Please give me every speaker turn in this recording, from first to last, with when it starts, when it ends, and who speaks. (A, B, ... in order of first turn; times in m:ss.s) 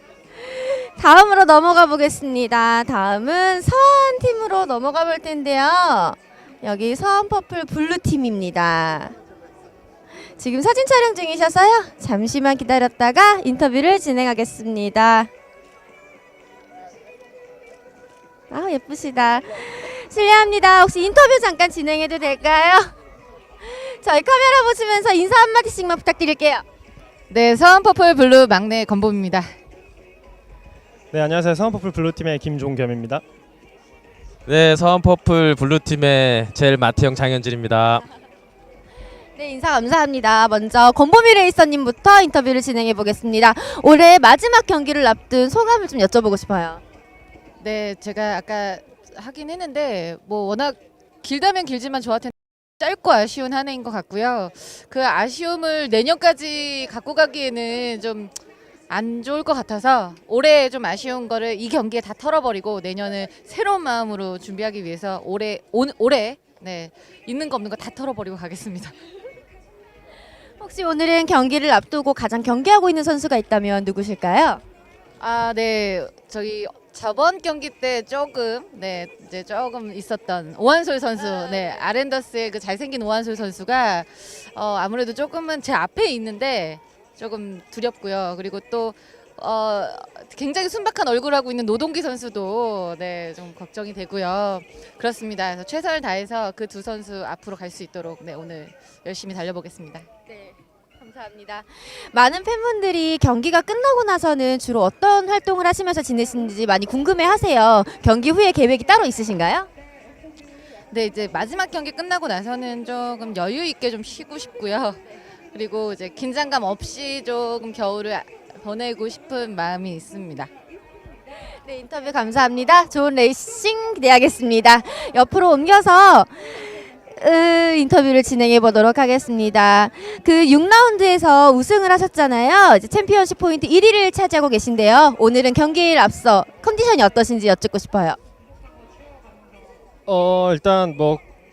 0:00.5-0:09.2 A
0:10.4-0:15.3 A
0:18.5-0:22.9 A
0:23.6-0:26.6 A
0:27.3-0:29.5 B
0:31.1-0:33.2 C
0:34.5-0:38.0 D
0:39.4-0:46.8 A
0:47.6-0:58.3 B
0:58.9-1:08.9 B
1:10.6-1:14.6 A
1:15.2-1:40.1 B
1:41.0-1:49.7 A
1:50.9-1:55.0 B
1:55.5-2:00.5 B
2:01.6-2:18.2 A
2:20.1-2:21.2 C